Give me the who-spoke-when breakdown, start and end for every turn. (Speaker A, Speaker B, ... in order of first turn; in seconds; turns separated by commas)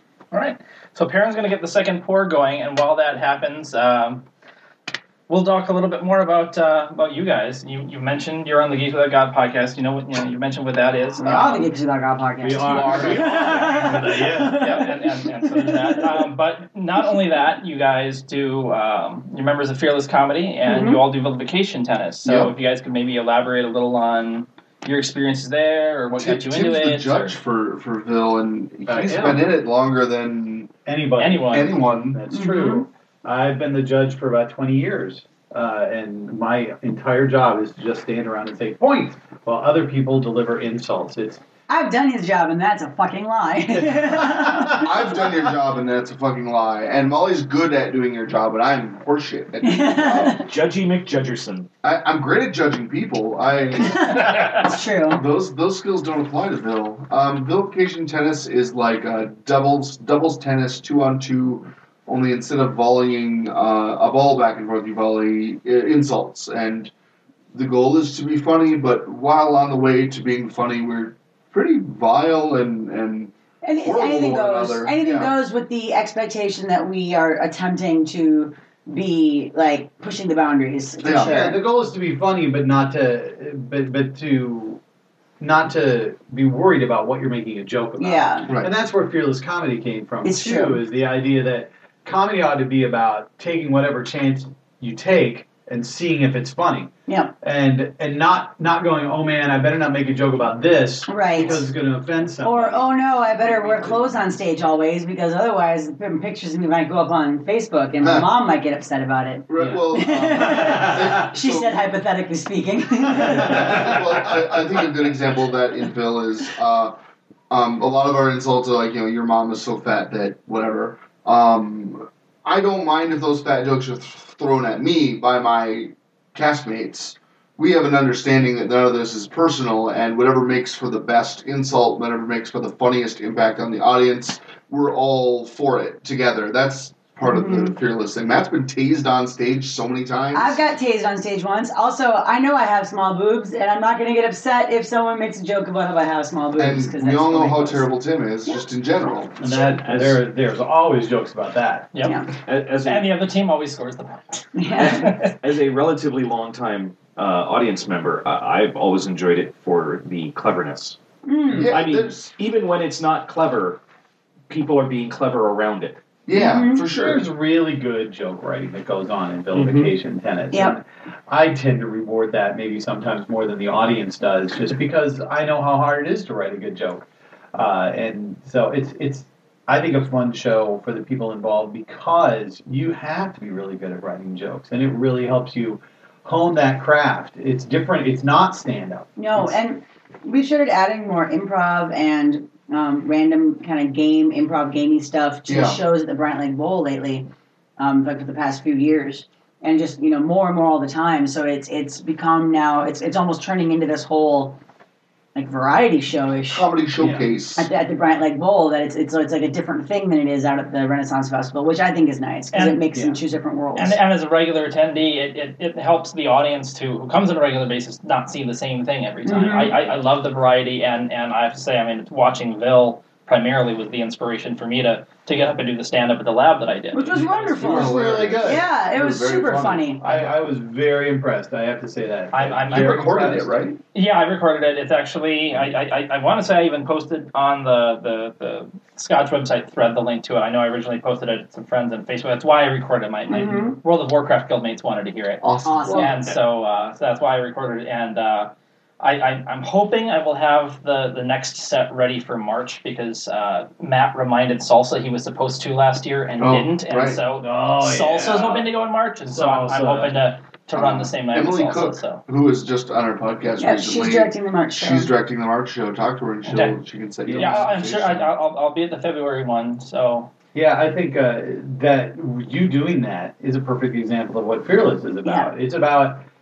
Speaker A: 0.3-4.2, Speaker A: 5.3-11.7, Speaker B: 11.2-16.2, Speaker C: 12.4-14.8, Speaker A: 12.7-13.8, Speaker A: 14.6-27.4, Speaker B: 20.7-21.0, Speaker D: 22.2-22.5, Speaker D: 26.1-30.7, Speaker C: 28.9-29.5, Speaker C: 30.9-41.4, Speaker A: 31.2-31.7, Speaker D: 31.5-32.2, Speaker B: 32.3-32.9, Speaker B: 41.7-45.2, Speaker C: 43.9-44.7, Speaker D: 44.7-50.4, Speaker B: 49.6-50.5, Speaker E: 50.4-51.7, Speaker D: 51.8-66.9, Speaker B: 53.8-55.2, Speaker D: 67.5-75.3, Speaker B: 73.6-81.6, Speaker D: 81.0-81.5, Speaker C: 81.2-84.8, Speaker C: 85.4-104.2, Speaker B: 88.0-88.5, Speaker B: 90.2-90.8, Speaker B: 97.1-97.3, Speaker B: 101.1-101.7, Speaker B: 102.4-114.1, Speaker D: 108.0-108.3, Speaker D: 109.5-111.8, Speaker C: 109.6-111.3, Speaker C: 113.2-113.9, Speaker D: 113.3-117.0, Speaker D: 117.5-140.6, Speaker B: 137.2-137.7, Speaker B: 140.3-147.9, Speaker D: 146.6-149.8, Speaker C: 149.4-151.9, Speaker E: 149.8-150.2, Speaker A: 151.9-155.3, Speaker B: 152.0-152.3, Speaker E: 152.4-153.1, Speaker B: 154.6-155.1, Speaker E: 154.7-161.0, Speaker B: 161.2-161.7, Speaker D: 161.5-162.3, Speaker E: 161.7-163.8, Speaker E: 164.5-166.0, Speaker D: 166.3-167.2, Speaker B: 166.3-166.9, Speaker C: 166.8-189.5, Speaker B: 169.6-169.9, Speaker B: 170.5-170.8, Speaker B: 189.2-204.6, Speaker D: 195.5-195.8, Speaker B: 205.3-206.7, Speaker D: 206.5-207.7, Speaker C: 207.0-207.3, Speaker B: 207.6-214.0, Speaker A: 212.5-212.8, Speaker A: 213.8-227.6, Speaker B: 219.2-219.8, Speaker B: 226.9-230.0, Speaker C: 227.1-228.7, Speaker D: 227.6-229.9, Speaker C: 230.0-233.6, Speaker A: 232.3-233.1, Speaker D: 232.7-233.8, Speaker A: 233.9-262.2, Speaker B: 243.3-243.8, Speaker D: 245.4-246.3, Speaker B: 245.7-246.2, Speaker D: 256.4-257.2, Speaker C: 257.4-258.7, Speaker C: 259.3-260.2, Speaker D: 260.7-268.3, Speaker B: 263.6-265.1, Speaker A: 266.4-266.8, Speaker C: 267.3-267.7, Speaker A: 267.3-270.3, Speaker C: 270.5-276.2, Speaker B: 275.2-275.5